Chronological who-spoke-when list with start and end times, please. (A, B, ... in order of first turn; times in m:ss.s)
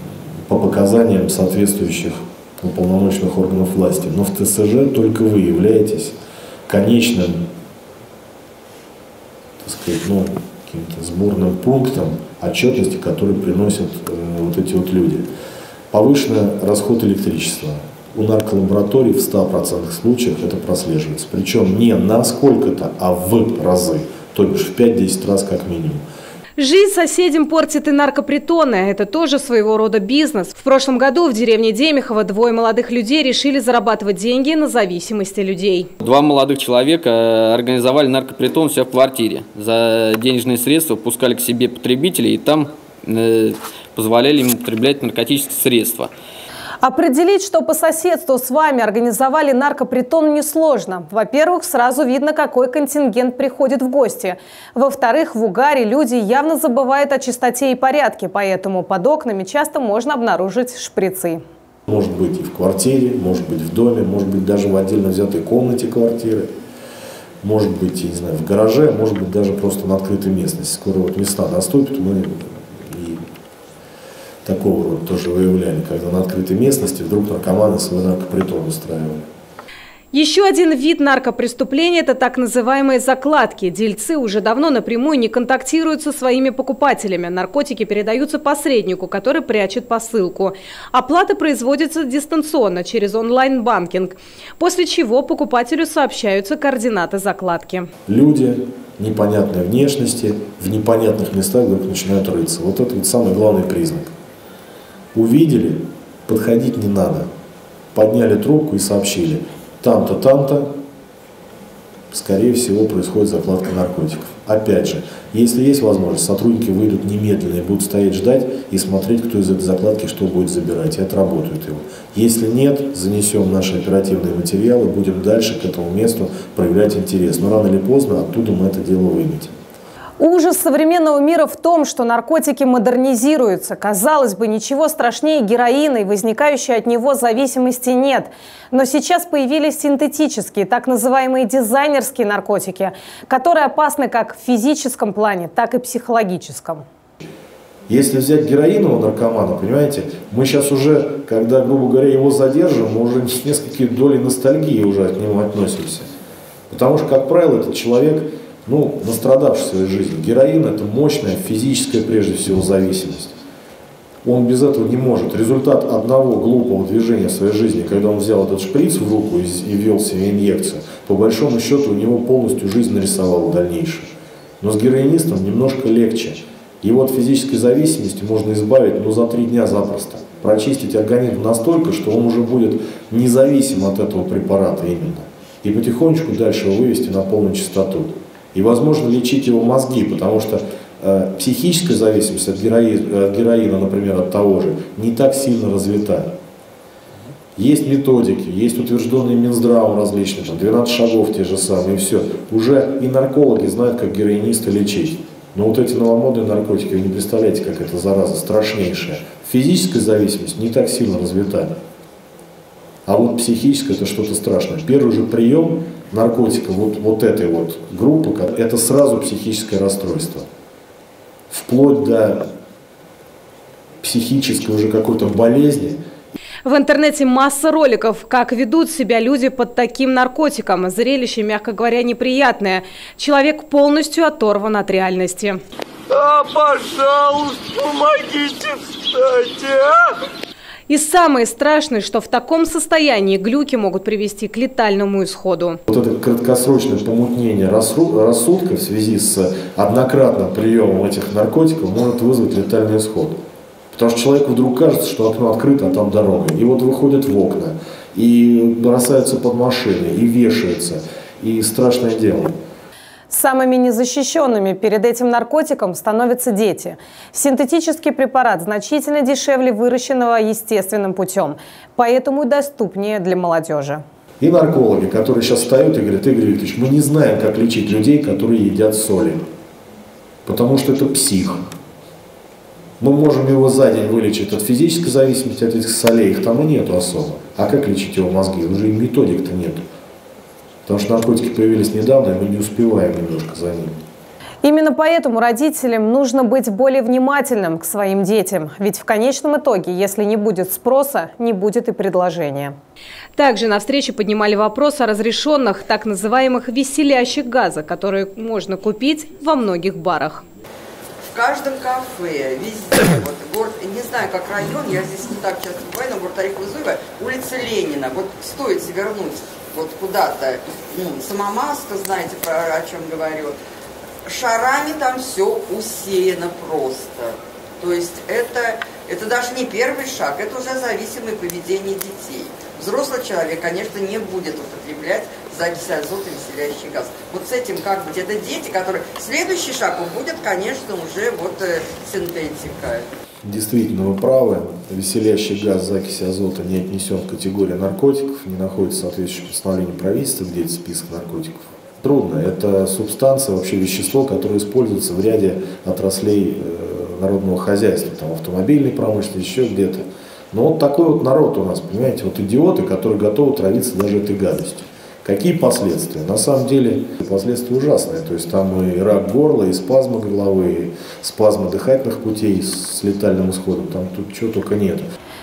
0:00.5-0:07.4 A
0:09.6-0:15.3 A
0:15.9-0:26.0 A
0:26.6-0:35.9 B
0:36.0-0:46.1 C
0:46.8-1:01.4 B
1:01.9-1:06.5 A
1:07.4-1:13.2 A
1:14.4-1:19.2 A
1:20.1-1:37.9 B
1:38.0-1:44.1 A
1:45.1-1:47.3 A
1:47.9-1:50.7 A
1:52.1-2:09.5 A
2:10.2-2:26.8 B
2:27.9-2:36.1 A
2:36.7-2:43.4 A
2:44.2-3:16.3 A
3:17.6-3:31.7 A
3:33.0-3:40.4 A
3:41.5-3:42.5 A
3:44.0-3:46.0 A
3:46.6-3:55.6 B
3:56.1-3:56.8 D
3:56.8-3:57.4 E
3:57.4-3:59.8 D
4:00.9-4:05.8 B
4:05.9-4:13.4 A
4:13.9-4:22.6 A
4:23.3-4:34.0 B
4:34.4-4:39.4 A
4:40.4-4:41.6 A
4:43.0-4:49.8 A
4:50.8-4:53.9 A
4:54.6-5:02.7 B
5:03.4-5:10.4 B
5:11.2-5:23.5 E
5:24.2-5:43.1 E
5:43.4-6:15.1 A